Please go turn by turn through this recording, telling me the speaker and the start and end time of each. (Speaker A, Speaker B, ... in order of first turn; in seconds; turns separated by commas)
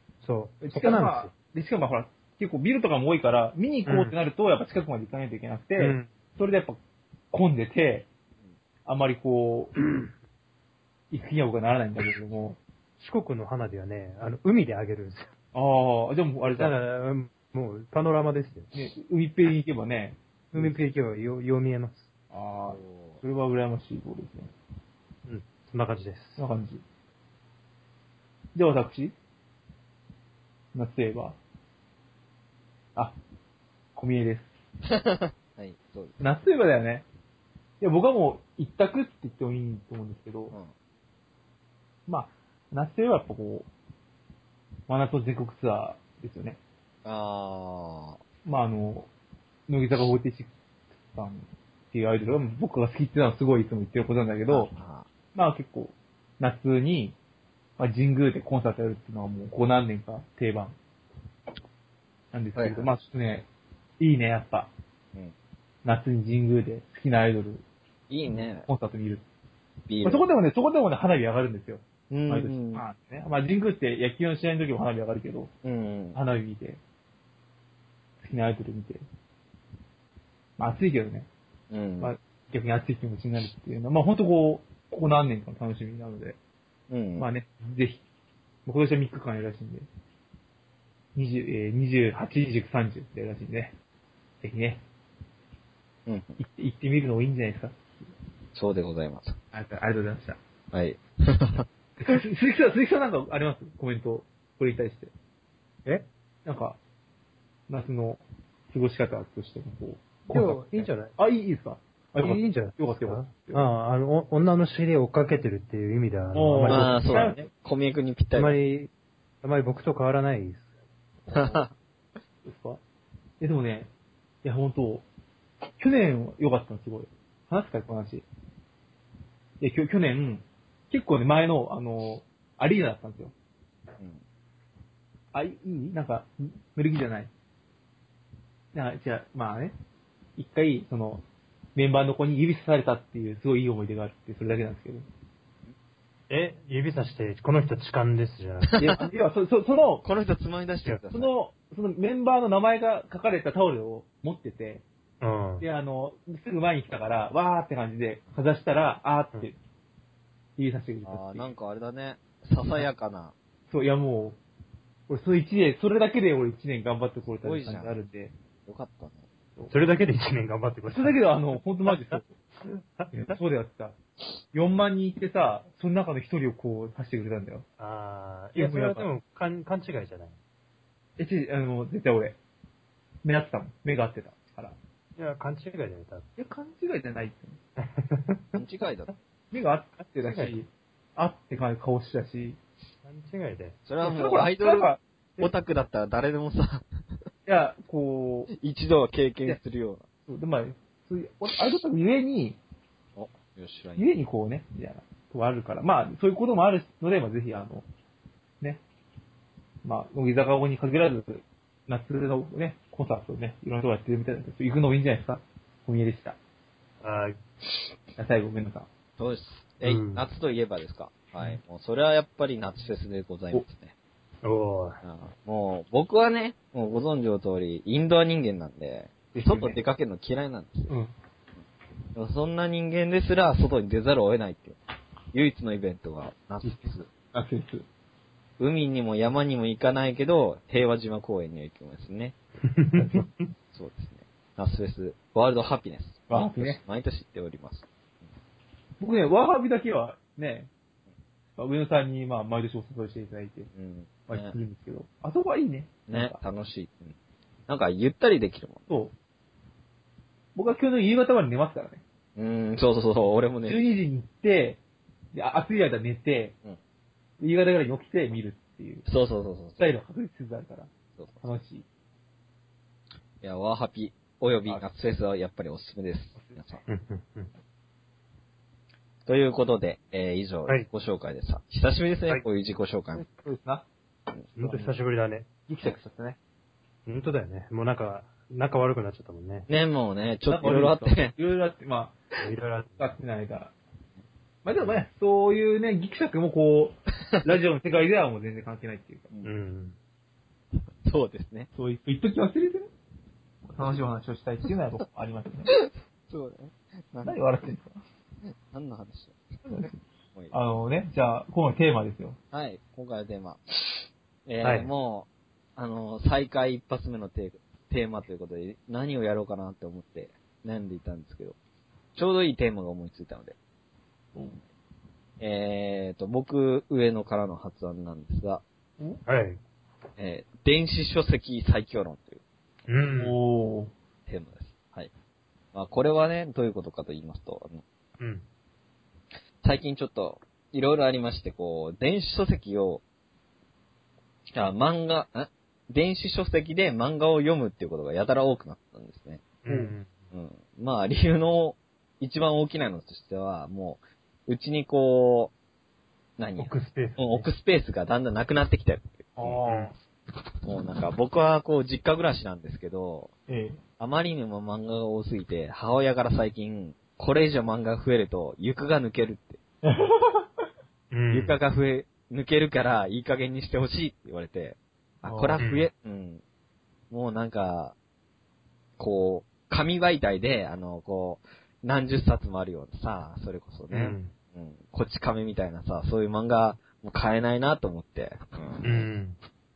Speaker A: 0.2-1.3, Speaker B: 0.6-6.8, Speaker A: 3.9-4.1, Speaker A: 5.8-6.1, Speaker B: 7.3-8.1, Speaker B: 8.8-9.8, Speaker B: 11.1-12.6, Speaker A: 13.0-15.3, Speaker B: 15.5-16.8, Speaker A: 16.4-18.7, Speaker B: 18.7-20.8, Speaker A: 20.5-22.1, Speaker B: 22.3-24.5, Speaker C: 22.7-23.2, Speaker A: 25.3-26.4, Speaker B: 26.4-26.8, Speaker B: 28.5-29.1, Speaker B: 30.7-31.4, Speaker B: 34.0-34.5, Speaker C: 34.8-36.2, Speaker B: 36.2-37.0, Speaker B: 37.8-40.6, Speaker B: 42.1-43.7, Speaker B: 44.9-46.6, Speaker C: 47.0-48.2, Speaker B: 48.4-49.1, Speaker B: 49.7-50.5, Speaker B: 51.0-54.7, Speaker C: 54.5-55.1, Speaker B: 55.3-57.2, Speaker B: 57.8-60.8, Speaker B: 62.3-63.5, Speaker C: 62.6-62.9, Speaker B: 64.0-64.7, Speaker B: 65.8-67.6, Speaker C: 68.1-68.7, Speaker B: 68.3-69.2, Speaker C: 69.9-70.3, Speaker B: 70.0-75.5, Speaker C: 72.1-72.8, Speaker C: 75.6-76.2, Speaker B: 76.2-76.8, Speaker B: 78.2-79.0, Speaker B: 80.6-81.3, Speaker C: 81.7-82.1, Speaker B: 82.0-86.4, Speaker C: 86.9-87.3, Speaker B: 87.2-88.0, Speaker B: 88.7-89.9, Speaker B: 91.2-93.8, Speaker B: 94.4-94.8, Speaker C: 96.1-96.4, Speaker B: 96.4-97.8, Speaker C: 98.5-99.4, Speaker B: 99.5-100.4, Speaker C: 100.7-101.7, Speaker B: 102.0-105.1, Speaker B: 106.5-106.8, Speaker B: 107.7-113.6, Speaker A: 110.3-111.1, Speaker A: 112.2-117.3, Speaker B: 116.3-117.4, Speaker C: 116.7-118.6, Speaker A: 118.3-118.9, Speaker A: 119.4-120.7, Speaker B: 121.2-121.6, Speaker C: 121.3-121.7, Speaker B: 122.4-122.8, Speaker B: 123.4-123.9, Speaker B: 124.4-125.0, Speaker B: 125.8-128.2, Speaker B: 129.6-133.3, Speaker B: 135.3-137.3, Speaker B: 138.7-139.7, Speaker B: 140.4-145.1, Speaker A: 146.3-148.9, Speaker B: 148.8-150.1, Speaker C: 150.0-151.3, Speaker B: 151.1-154.8, Speaker A: 155.2-155.7, Speaker B: 155.6-159.6, Speaker B: 160.6-161.5, Speaker C: 161.1-163.3, Speaker B: 163.7-164.4, Speaker B: 165.1-168.3, Speaker C: 167.4-168.0, Speaker C: 168.7-169.2, Speaker A: 169.7-171.2, Speaker B: 170.9-172.3, Speaker A: 171.8-173.4, Speaker B: 173.1-174.0, Speaker B: 174.5-177.7, Speaker A: 177.8-180.4, Speaker B: 178.6-179.1, Speaker B: 181.2-182.4, Speaker B: 183.2-184.8, Speaker A: 185.2-186.3, Speaker B: 186.4-187.6, Speaker A: 187.8-188.6, Speaker C: 188.6-189.1, Speaker B: 189.5-192.6, Speaker A: 190.2-190.5, Speaker A: 193.0-193.8, Speaker C: 193.9-196.9, Speaker B: 194.0-195.5, Speaker B: 197.5-198.5, Speaker C: 198.5-200.0, Speaker B: 200.3-202.6, Speaker C: 203.2-204.1, Speaker B: 204.0-207.9, Speaker B: 209.8-216.4, Speaker A: 217.0-217.4, Speaker B: 218.2-218.9, Speaker C: 219.2-223.9, Speaker A: 219.8-220.2, Speaker A: 224.4-225.0, Speaker C: 225.0-230.9, Speaker B: 229.3-229.8, Speaker B: 230.9-231.1, Speaker C: 232.2-234.8, Speaker C: 235.3-237.1, Speaker B: 236.6-237.8, Speaker C: 238.6-242.3, Speaker A: 242.7-243.5, Speaker B: 243.0-243.3, Speaker C: 243.7-247.9, Speaker B: 246.3-246.8, Speaker B: 249.0-250.7, Speaker B: 251.6-253.7, Speaker C: 253.8-254.6, Speaker B: 254.3-256.4, Speaker C: 256.1-257.1, Speaker C: 257.7-258.9, Speaker B: 258.9-259.1, Speaker B: 260.6-262.0, Speaker C: 262.4-263.8, Speaker B: 263.6-264.8, Speaker B: 265.3-266.6, Speaker B: 267.4-269.1, Speaker C: 269.1-270.0, Speaker B: 269.8-271.9, Speaker C: 271.2-271.4, Speaker C: 273.4-276.8, Speaker B: 276.4-276.6, Speaker A: 276.9-277.5, Speaker C: 279.3-283.2, Speaker B: 283.1-283.9, Speaker B: 284.6-284.9, Speaker A: 284.6-285.5, Speaker B: 285.7-286.4, Speaker A: 287.1-289.7, Speaker C: 289.7-291.4, Speaker B: 290.5-292.2, Speaker A: 292.4-293.1, Speaker B: 293.0-293.7, Speaker B: 294.6-299.4, Speaker A: 299.4-300.0, Speaker C: 301.0-301.7, Speaker B: 301.8-302.9, Speaker B: 303.6-305.7, Speaker C: 306.3-307.4, Speaker B: 307.2-308.0, Speaker C: 308.5-309.4, Speaker B: 309.7-310.0, Speaker B: 310.5-312.4, Speaker C: 312.5-321.6, Speaker A: 314.6-314.9, Speaker C: 322.1-323.6, Speaker B: 324.4-324.6, Speaker C: 325.4-328.6, Speaker A: 329.3-329.6, Speaker C: 330.2-332.4, Speaker A: 332.9-333.4, Speaker B: 333.2-333.9, Speaker C: 334.3-335.1, Speaker C: 335.7-337.8, Speaker A: 338.2-338.4, Speaker C: 339.6-343.0, Speaker C: 344.5-349.4, Speaker A: 349.6-350.1, Speaker B: 349.7-349.9, Speaker C: 350.3-355.5, Speaker C: 356.4-359.6, Speaker A: 356.6-357.5, Speaker B: 359.4-359.9, Speaker A: 359.6-359.9, Speaker C: 360.6-363.3, Speaker B: 363.5-363.8, Speaker C: 364.0-369.6, Speaker B: 369.8-370.7, Speaker A: 371.1-371.6, Speaker C: 371.3-376.4, Speaker B: 375.2-375.6, Speaker A: 375.6-375.9, Speaker C: 377.1-377.9, Speaker C: 379.0-389.1, Speaker A: 383.9-384.3, Speaker A: 388.8-389.4